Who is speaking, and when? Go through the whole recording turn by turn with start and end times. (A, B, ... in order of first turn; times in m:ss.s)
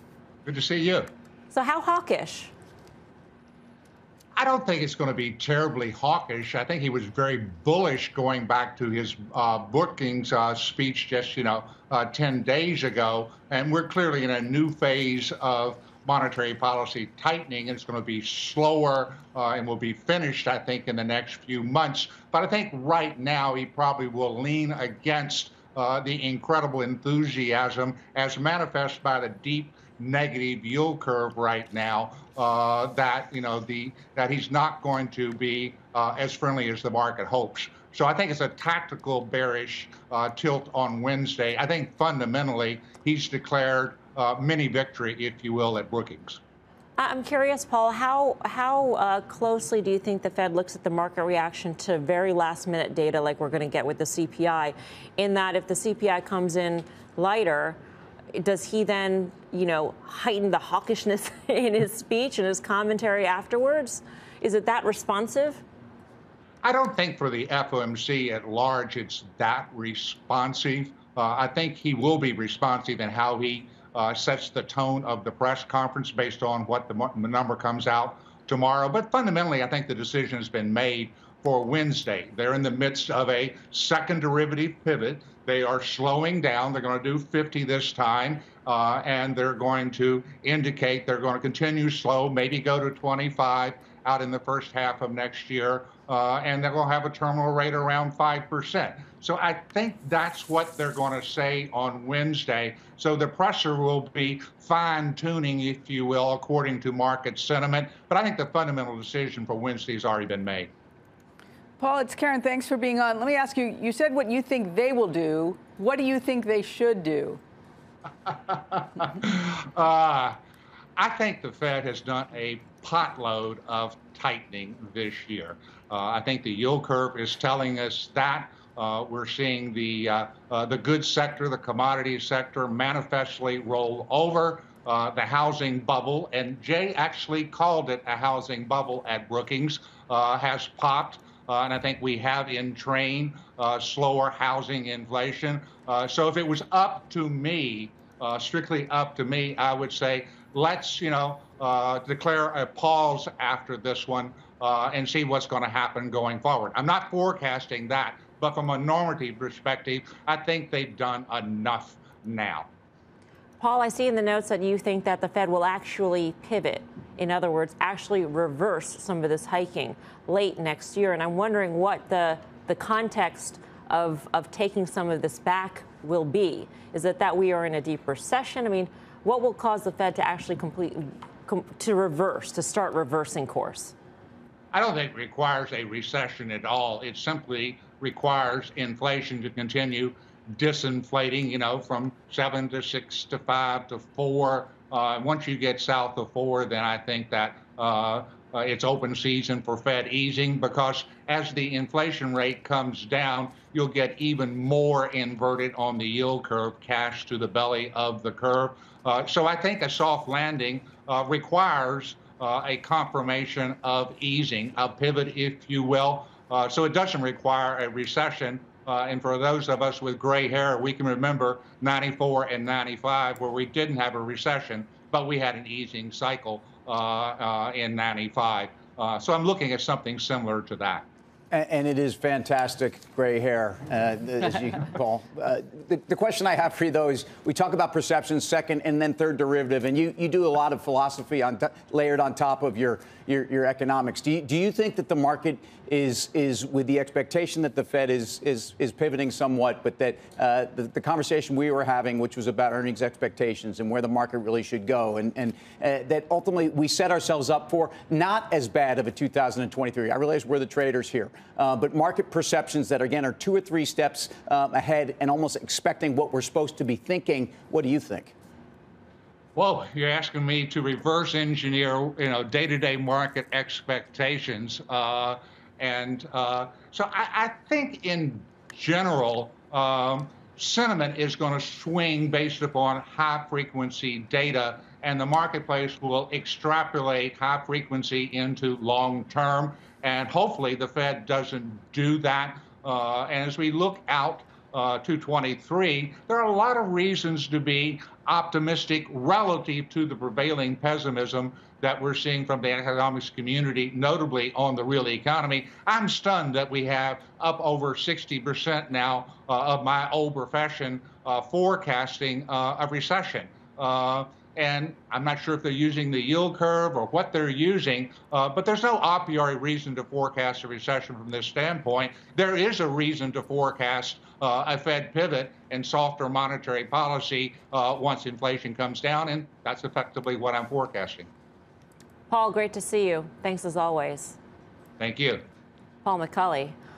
0:00.4-0:01.1 A
0:01.5-0:02.5 B
0:04.3-0:46.4 A
0:47.0-0:57.8 B
0:58.3-1:05.6 B
1:06.6-1:50.7 A
1:51.8-1:57.4 C
1:58.3-2:00.4 A
2:01.0-2:42.7 A
2:43.6-3:03.9 B
3:04.7-3:51.0 A
3:51.5-4:28.3 D
4:29.6-5:31.3 A
5:32.3-5:34.4 B
5:35.0-5:35.4 A
5:36.0-5:36.7 B